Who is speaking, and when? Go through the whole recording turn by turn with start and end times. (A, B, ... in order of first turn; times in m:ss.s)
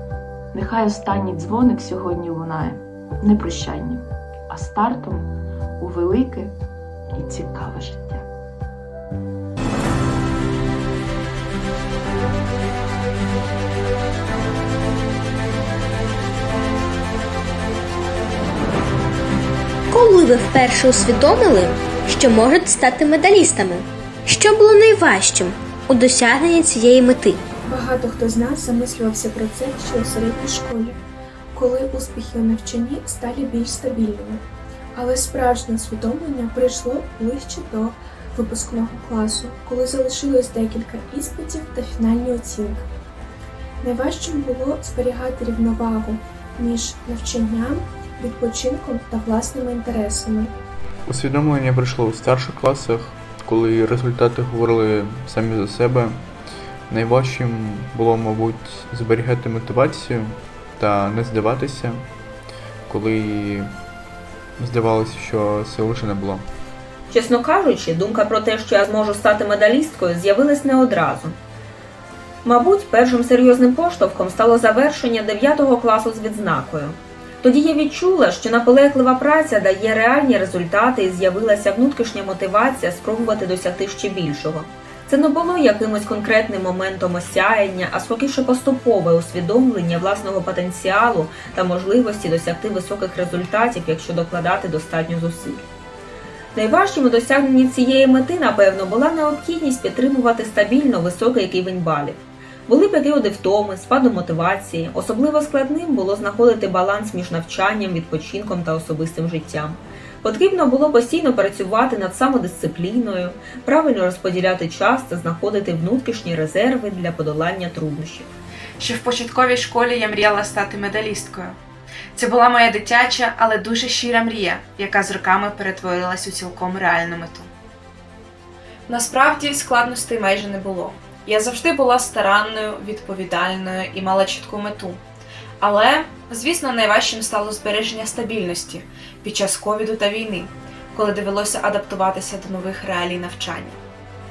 0:00.5-0:06.6 A
0:07.1-0:08.2 A
0:19.9-0:27.4 B
0:27.6-0:31.0 C
0:31.5-0:34.4 C
0:34.9-0:42.9 C
0:43.8-0:50.5 C
0:51.0-0:56.2 D
0:56.9-1:02.0 D
1:02.9-1:03.7 D
1:04.6-1:06.4 D
1:07.1-1:11.4 E
1:12.4-1:35.6 E
1:36.5-1:58.3 E
1:58.8-2:01.6 F
2:02.1-2:07.5 F
2:08.9-2:15.0 F
2:15.6-2:23.8 F